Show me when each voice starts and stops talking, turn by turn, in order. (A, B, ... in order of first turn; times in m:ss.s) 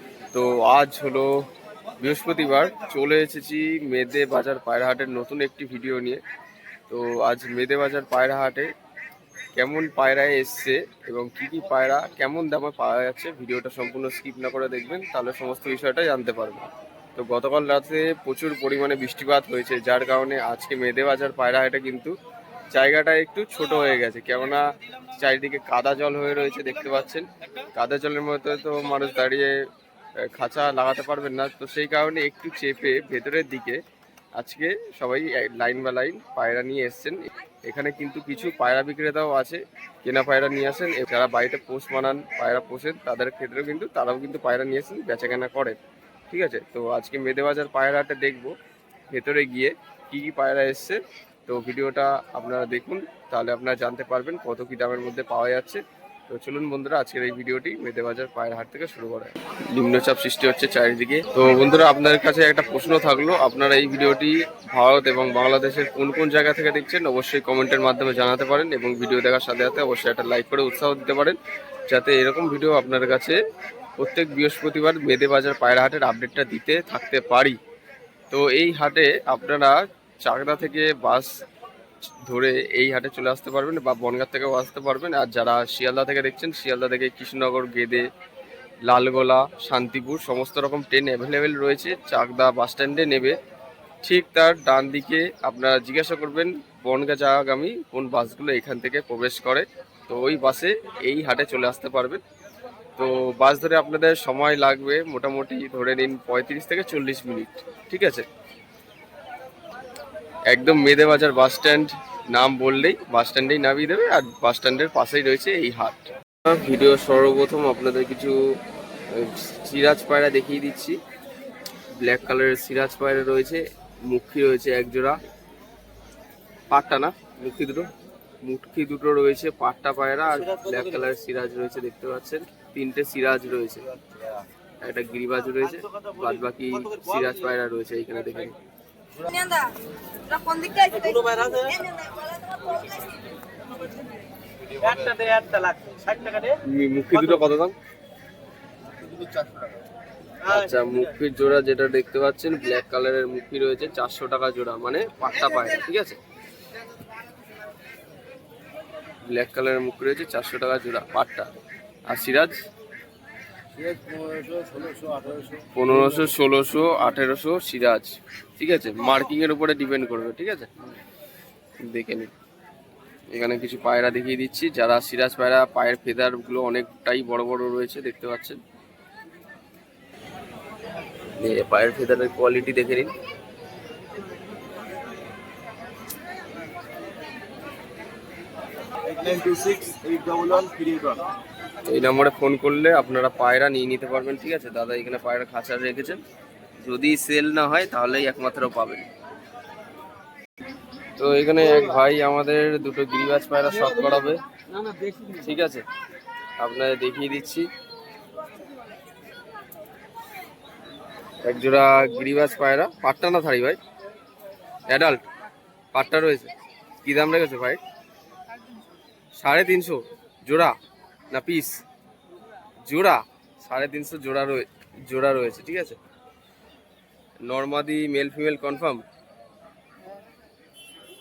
0:00.3-0:01.4 A
0:02.0-0:06.2 A
0:06.9-0:08.7 A
0:09.6-0:22.1 A
0:22.7-0:24.6 A
0:25.2-0:29.5 A
0:30.2-0:33.8 A
0:34.4-0:45.8 A
0:46.3-0:48.5 A
0:49.1-1:13.4 A
1:14.0-1:17.6 A
1:18.3-1:21.3 A
1:22.2-1:28.0 A
1:28.8-1:33.4 A
1:34.0-1:42.2 A
1:43.0-1:48.2 A
1:50.5-1:58.4 A
1:59.1-2:01.0 A
2:02.0-2:05.2 A
2:06.7-2:07.9 A
2:08.4-2:13.9 A
2:14.8-2:18.5 A
2:20.4-2:21.1 B
2:21.0-2:21.7 C
2:25.0-2:26.5 C
2:26.6-2:27.7 A
2:30.5-2:36.2 A
2:39.2-2:41.5 A
2:42.1-2:42.6 A
2:43.8-2:45.6 C
2:45.7-2:50.7 A
2:51.8-2:52.3 A
2:53.3-2:58.6 A
3:01.4-3:03.1 A
3:09.1-3:11.2 B
3:09.2-3:10.9 C
3:11.8-3:16.2 A
3:16.8-3:19.1 A
3:21.2-3:24.4 A
3:25.3-3:25.8 A
3:26.6-3:27.7 A
3:31.4-3:33.8 A
3:34.9-3:35.2 A
3:35.9-3:36.5 A
3:37.0-3:37.8 A
3:39.4-3:40.8 A
3:41.3-3:41.8 A
3:42.8-3:46.0 A
3:47.4-3:49.0 A